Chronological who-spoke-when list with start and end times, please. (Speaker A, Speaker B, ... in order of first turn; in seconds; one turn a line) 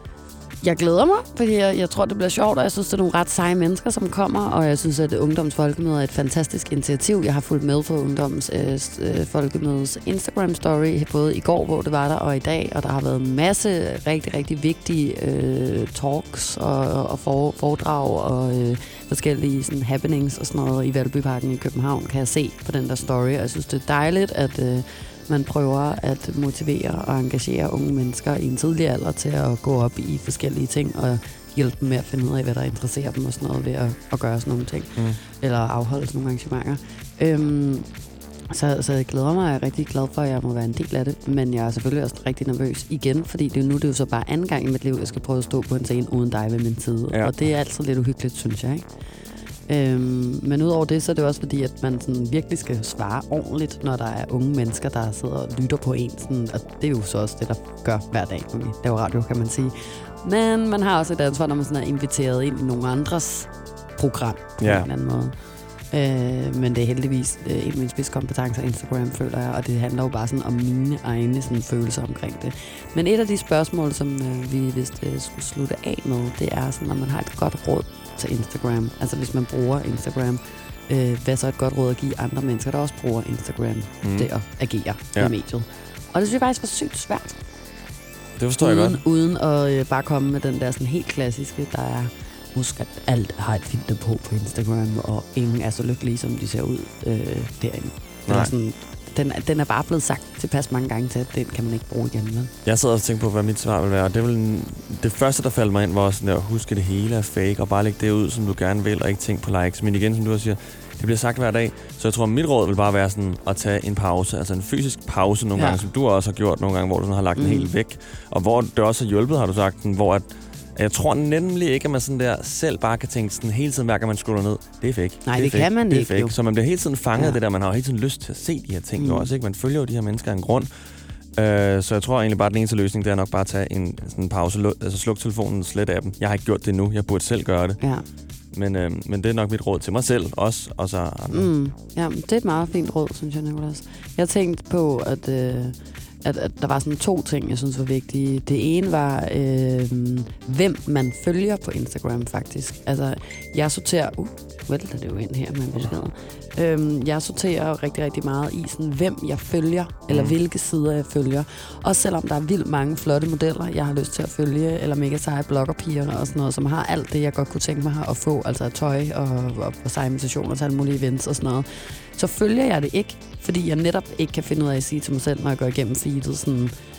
Speaker A: 0.6-37.9
Speaker A: 38.5-48.9
Speaker A: 49.7-65.3
Speaker B: 64.6-64.9
Speaker A: 65.9-87.4
Speaker B: 84.0-84.3
Speaker B: 88.4-89.0
Speaker A: 88.6-102.5
Speaker B: 102.6-130.7
Speaker A: 115.6-115.8
Speaker A: 117.4-117.7
Speaker A: 125.3-126.3
Speaker A: 129.0-129.3
Speaker B: 131.4-137.8
Speaker A: 137.8-138.1
Speaker B: 138.5-141.5
Speaker A: 141.3-176.7
Speaker B: 160.1-160.3